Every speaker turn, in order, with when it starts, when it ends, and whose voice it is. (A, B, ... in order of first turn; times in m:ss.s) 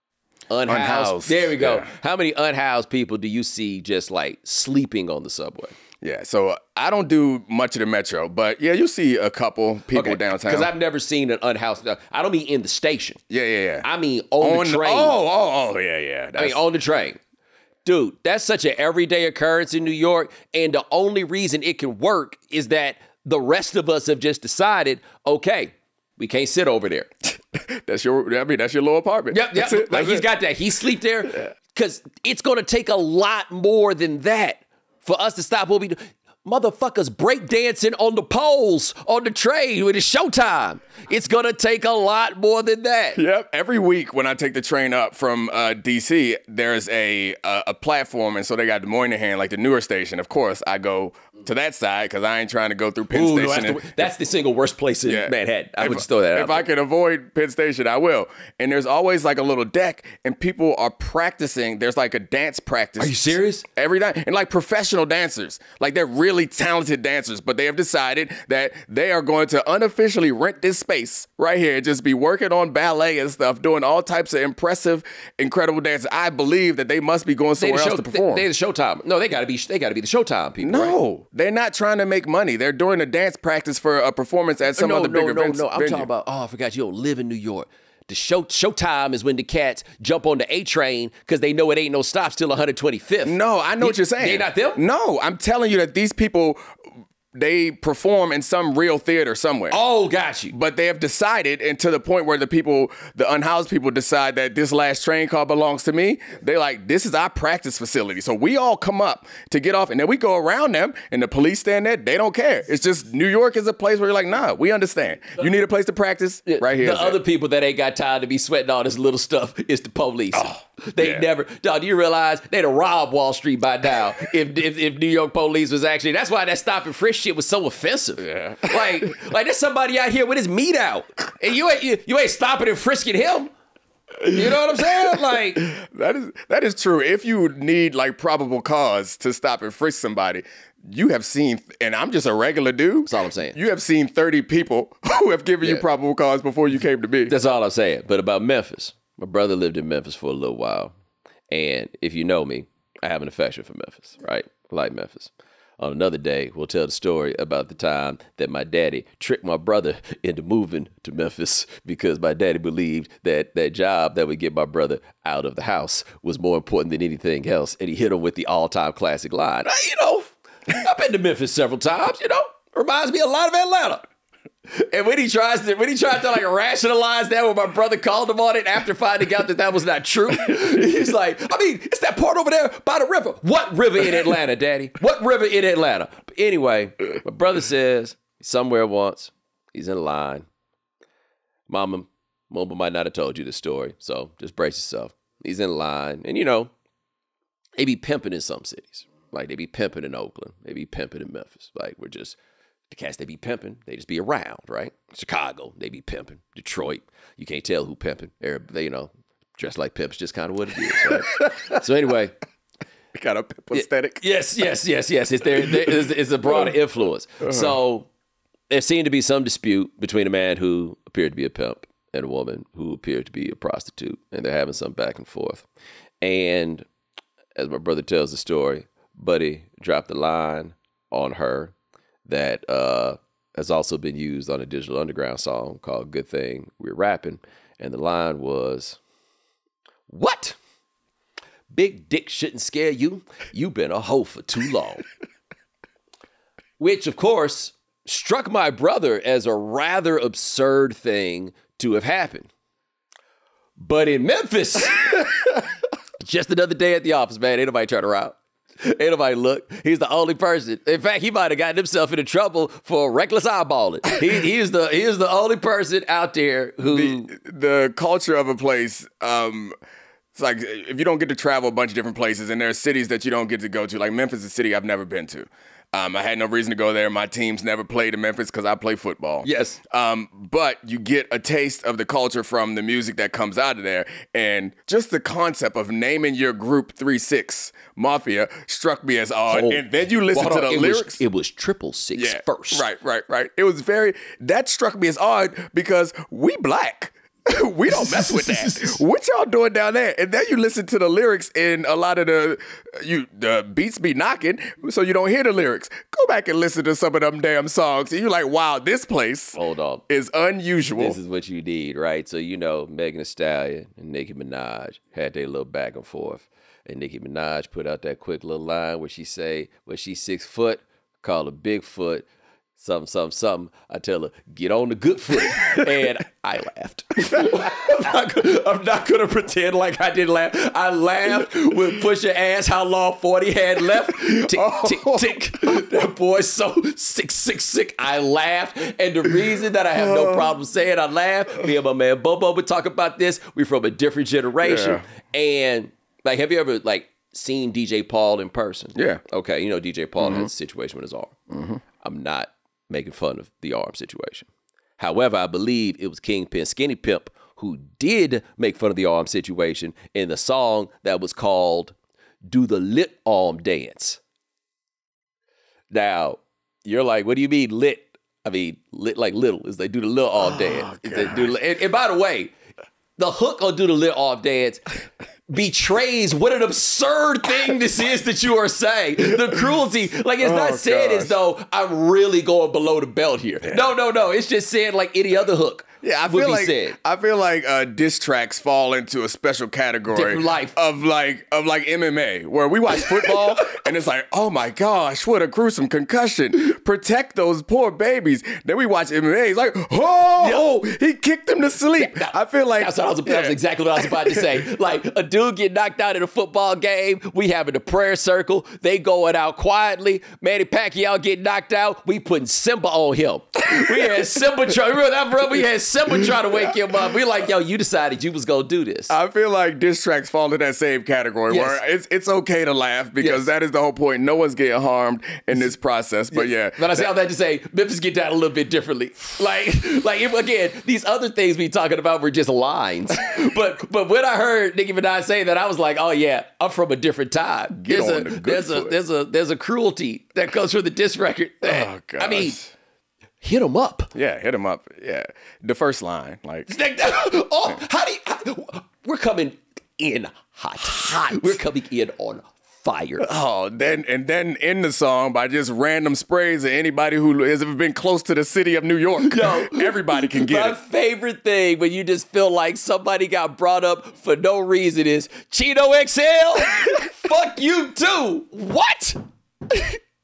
0:00.5-0:05.8 A
0:00.6-0:01.9 B
0:06.0-0:10.7 B
0:09.9-0:13.2 A
0:13.3-0:13.8 B
0:13.8-0:15.2 A
0:14.4-0:16.6 B
0:16.4-0:17.2 A
0:17.8-0:27.1 A
0:27.5-0:30.2 B
0:29.3-0:43.2 A
0:43.2-0:54.1 B
0:53.1-0:56.7 A
0:55.0-1:18.5 B
1:03.0-1:03.6 A
1:17.6-1:21.0 A
1:20.6-1:26.1 B
1:24.7-1:34.8 A
1:33.2-1:36.6 B
1:37.3-1:39.8 B
1:39.7-1:40.5 A
1:40.5-1:57.2 B
1:56.5-2:13.5 A
2:00.3-2:01.3 B
2:08.2-2:09.1 B
2:14.2-2:27.3 B
2:14.3-2:15.6 A
2:23.1-2:23.6 A
2:27.3-2:30.9 A
2:31.5-2:49.7 A
2:49.6-2:50.3 B
2:50.7-2:54.0 A
2:54.7-3:10.5 A
3:11.7-3:16.7 A
3:17.8-3:22.4 A
3:22.9-3:32.4 A
3:33.1-3:34.2 B
3:33.7-3:38.1 A
3:37.4-3:37.8 B
3:38.7-3:45.6 A
3:46.2-3:46.8 A
3:47.5-3:51.7 A
3:52.2-3:59.0 A
4:00.1-4:00.6 A
4:01.7-4:05.0 A
4:06.8-4:12.5 A
4:13.8-4:15.5 A
4:16.2-4:27.3 A
4:26.9-4:29.8 B
4:30.3-4:51.2 B
4:39.4-4:39.8 A
4:49.5-4:52.8 A
4:52.2-5:11.2 B
4:57.9-4:59.0 A
5:09.6-5:10.0 A
5:11.0-5:22.2 A
5:22.8-5:51.4 A
5:34.2-5:35.8 B
5:40.0-5:40.5 B
5:44.6-5:45.0 B
5:48.9-5:49.2 B
5:50.2-5:50.5 B
5:51.5-5:51.8 B
5:52.0-6:01.9 A
6:02.4-6:04.2 A
6:05.9-6:12.5 A
6:10.4-6:11.5 B
6:13.2-6:14.9 A
6:15.5-6:27.0 A
6:20.4-6:21.4 B
6:26.0-6:44.6 B
6:30.1-6:30.7 A
6:40.4-6:40.9 A
6:42.0-6:59.1 A
6:53.8-6:54.4 B
6:56.5-6:56.8 B
6:59.1-7:07.1 B
7:01.5-7:01.8 A
7:03.2-7:03.4 A
7:06.3-7:22.6 A
7:17.7-7:18.9 B
7:21.6-7:22.7 B
7:23.4-7:24.1 A
7:24.1-7:26.7 B
7:26.7-7:33.3 A
7:31.0-7:31.6 B
7:33.2-7:40.8 B
7:39.2-7:49.2 A
7:49.7-7:50.0 A